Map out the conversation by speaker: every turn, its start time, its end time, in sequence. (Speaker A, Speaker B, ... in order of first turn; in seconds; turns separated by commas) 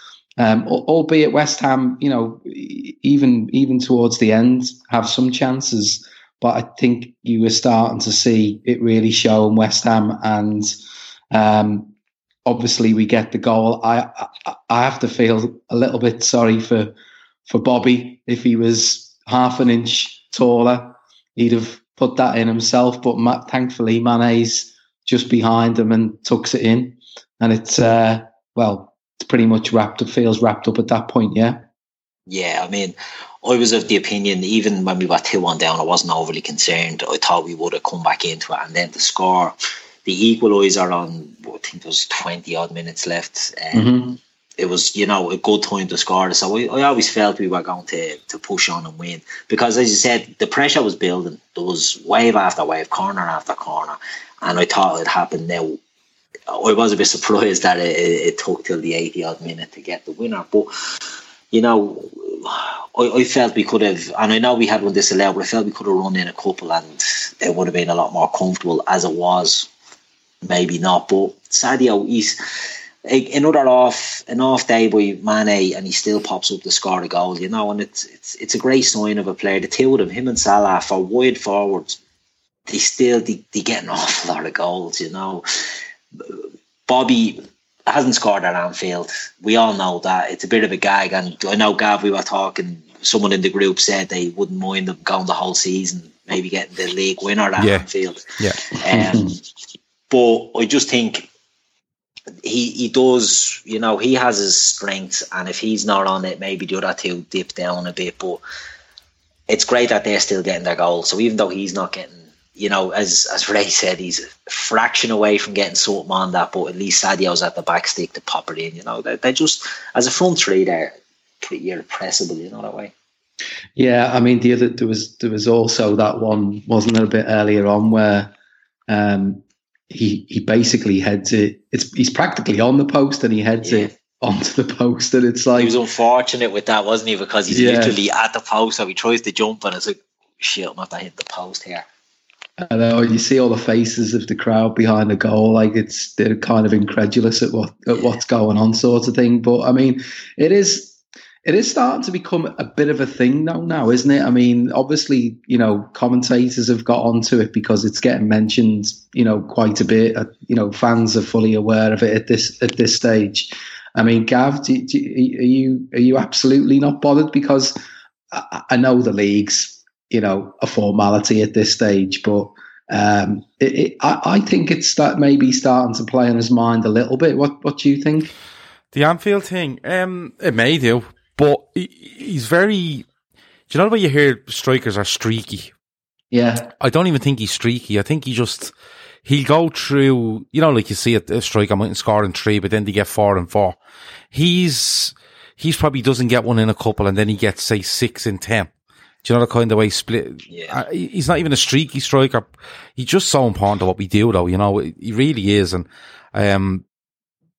Speaker A: 0.4-10.7, Speaker A: 11.3-11.9, Speaker A: 12.4-16.9, Speaker A: 17.5-31.7, Speaker B: 32.3-43.9, Speaker A: 43.7-44.2, Speaker B: 44.6-55.8, Speaker B: 56.5-60.7, Speaker B: 61.5-69.7, Speaker B: 70.4-72.4, Speaker B: 73.1-82.0, Speaker B: 82.7-85.5, Speaker B: 86.2-99.3, Speaker C: 97.6-97.8, Speaker A: 98.9-99.3, Speaker B: 100.1-101.3, Speaker B: 102.4-108.4, Speaker B: 109.5-122.9, Speaker A: 123.8-128.3, Speaker A: 128.9-135.8, Speaker B: 133.6-133.9, Speaker B: 135.6-141.8, Speaker A: 137.5-138.0, Speaker A: 142.6-167.8, Speaker A: 168.3-178.3, Speaker C: 178.9-183.1, Speaker C: 183.7-185.7, Speaker A: 186.3-186.7, Speaker C: 186.8-188.7, Speaker C: 189.2-193.8, Speaker C: 194.3-198.7, Speaker C: 199.2-206.8, Speaker B: 200.5-200.8